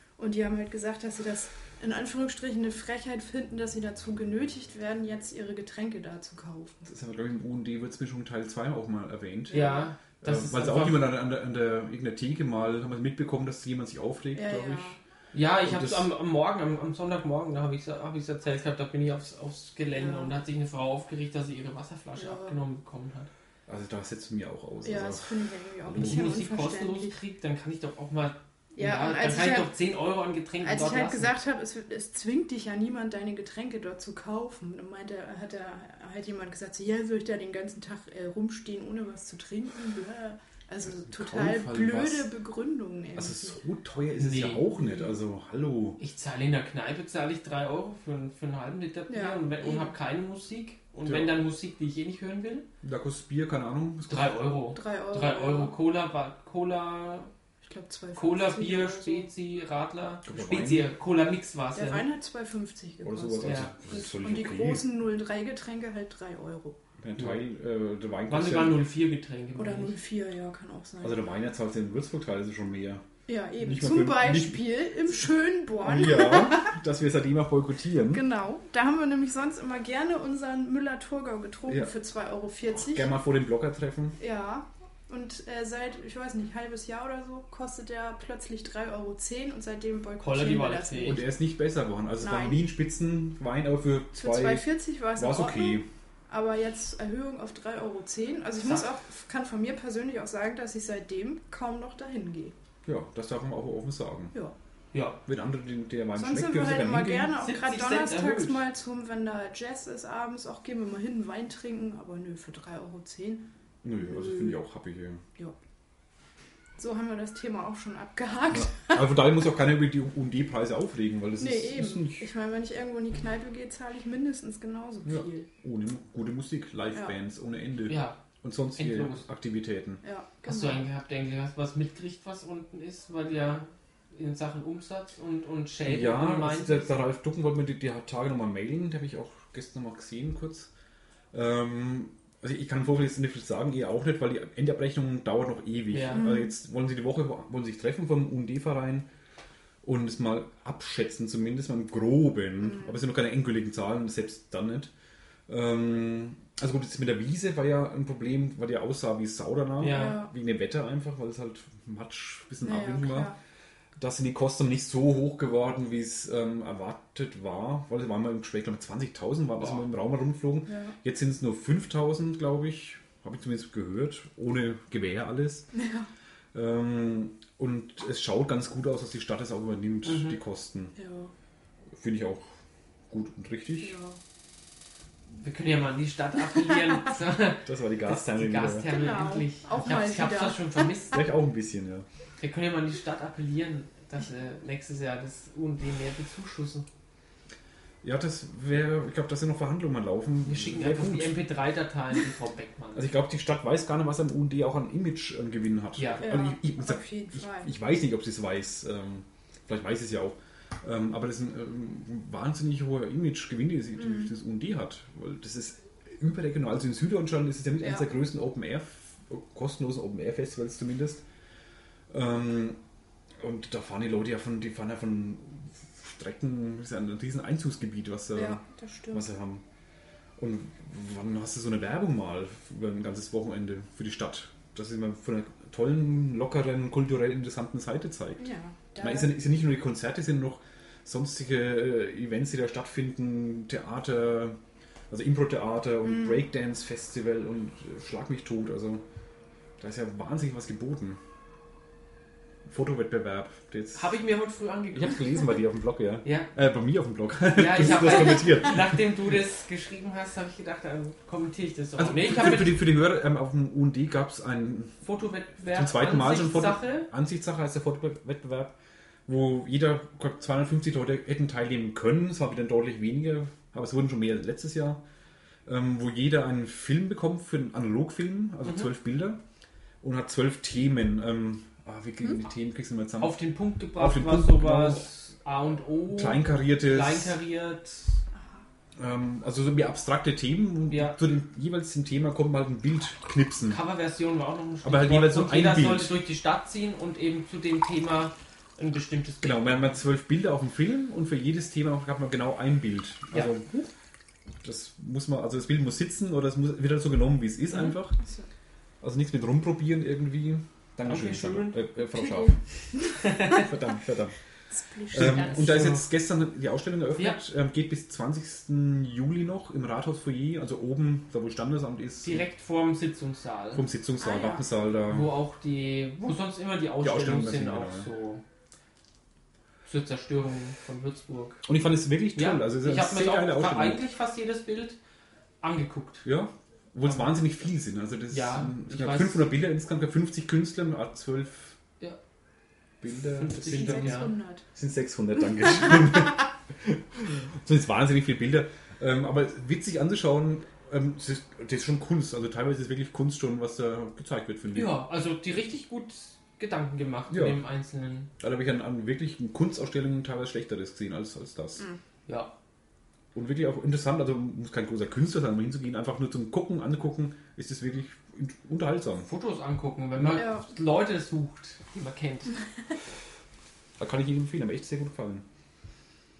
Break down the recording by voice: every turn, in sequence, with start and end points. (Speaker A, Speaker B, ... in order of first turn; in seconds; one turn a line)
Speaker A: 0.2-6.8
Speaker B: 6.8-15.0
Speaker C: 9.5-11.1
Speaker A: 9.5-9.9
Speaker A: 14.3-15.0
Speaker C: 15.3-23.3
Speaker B: 15.6-16.1
Speaker A: 19.9-20.3
Speaker A: 22.2-22.6
Speaker B: 23.7-25.3
Speaker A: 24.8-27.1
Speaker B: 25.9-26.2
Speaker C: 25.9-31.3
Speaker A: 28.8-29.7
Speaker A: 30.6-43.6
Speaker B: 40.9-42.3
Speaker B: 43.1-46.0
Speaker C: 44.1-45.1
Speaker C: 46.0-52.7
Speaker A: 49.1-49.9
Speaker B: 51.0-51.3
Speaker B: 52.8-54.4
Speaker C: 54.1-57.3
Speaker A: 54.7-55.7
Speaker A: 57.6-59.3
Speaker C: 58.1-62.1
Speaker B: 60.2-60.9
Speaker A: 61.7-66.8
Speaker B: 63.0-64.8
Speaker C: 63.4-63.7
Speaker B: 67.0-68.8
Speaker C: 68.3-70.0
Speaker A: 69.5-71.2
Speaker B: 71.0-73.0
Speaker A: 73.3-76.7
Speaker B: 73.6-74.7
Speaker B: 75.8-78.2
Speaker A: 78.1-83.1
Speaker B: 82.7-84.2
Speaker A: 84.2-91.2
Speaker C: 90.2-91.2
Speaker B: 91.0-95.9
Speaker A: 92.2-92.6
Speaker A: 94.2-102.5
Speaker B: 102.8-104.3
Speaker C: 104.9-105.2
Speaker B: 105.2-107.3
Speaker A: 106.2-113.5
Speaker C: 107.3-108.6
Speaker B: 113.8-115.2
Speaker A: 114.0-114.6
Speaker A: 116.8-119.0
Speaker B: 118.5-122.2
Speaker A: 121.4-125.5
Speaker B: 125.0-130.0
Speaker C: 127.9-128.2
Speaker C: 128.8-129.3
Speaker A: 130.0-130.8
Speaker C: 130.4-137.0
Speaker B: 135.8-140.7
Speaker B: 141.3-149.1
Speaker C: 145.9-146.2
Speaker A: 146.1-146.5
Speaker B: 149.8-154.9
Speaker B: 155.5-163.3
Speaker C: 159.8-160.2
Speaker A: 159.9-160.3
Speaker A: 162.6-163.3
Speaker B: 164.0-175.7
Speaker C: 169.6-169.8
Speaker A: 170.7-170.9
Speaker A: 175.7-176.1
Speaker B: 176.5-180.9
Speaker C: 180.1-180.4
Speaker A: 181.0-181.3
Speaker B: 181.9-182.5
Speaker B: 183.1-184.0
Speaker A: 183.8-184.2
Speaker C: 185.4-191.2
Speaker B: 187.6-188.9
Speaker A: 188.9-190.7
Speaker B: 191.1-192.1
Speaker C: 192.4-196.8
Speaker B: 198.0-201.4
Speaker C: 200.4-203.1
Speaker B: 202.9-221.2
Speaker C: 206.0-206.3
Speaker A: 206.2-207.7
Speaker B: 222.1-222.8
Speaker B: 223.4-229.6
Speaker A: 228.3-229.2
Speaker B: 230.4-244.6
Speaker A: 238.4-239.3
Speaker B: 245.1-249.0
Speaker A: 246.1-246.3
Speaker B: 249.8-251.2
Speaker B: 252.7-254.1
Speaker C: 253.9-255.4
Speaker B: 254.9-259.0
Speaker C: 257.5-262.8
Speaker B: 262.0-265.0
Speaker C: 265.0-267.1
Speaker B: 265.7-268.7
Speaker B: 269.3-275.0
Speaker B: 275.6-279.4
Speaker B: 280.0-283.4
Speaker C: 283.2-288.2
Speaker B: 283.9-285.1
Speaker B: 286.1-287.3
Speaker A: 288.4-288.6
Speaker B: 289.0-293.8
Speaker C: 290.9-291.2
Speaker C: 293.7-299.9
Speaker B: 294.8-296.1
Speaker B: 299.4-303.9
Speaker B: 304.6-308.2
Speaker A: 308.2-308.5
Speaker B: 309.0-312.6
Speaker C: 311.1-311.8
Speaker A: 312.1-313.3
Speaker C: 313.2-313.7
Speaker B: 313.5-314.3
Speaker A: 314.7-315.5
Speaker B: 315.1-322.4
Speaker C: 315.1-316.1
Speaker C: 322.2-323.8
Speaker B: 323.7-325.4
Speaker A: 324.2-324.6
Speaker C: 325.1-328.4
Speaker B: 327.0-328.1
Speaker C: 329.8-331.6
Speaker B: 331.6-334.0
Speaker C: 332.4-335.0
Speaker C: 335.6-336.2
Speaker B: 336.2-341.8
Speaker C: 338.3-339.5
Speaker B: 343.0-355.0
Speaker C: 343.3-344.3
Speaker A: 343.7-344.6
Speaker C: 354.7-358.3
Speaker B: 357.3-357.6
Speaker B: 358.4-361.9
Speaker C: 362.3-362.5
Speaker B: 363.3-369.3
Speaker C: 369.2-372.5
Speaker A: 370.3-370.6
Speaker B: 374.0-375.4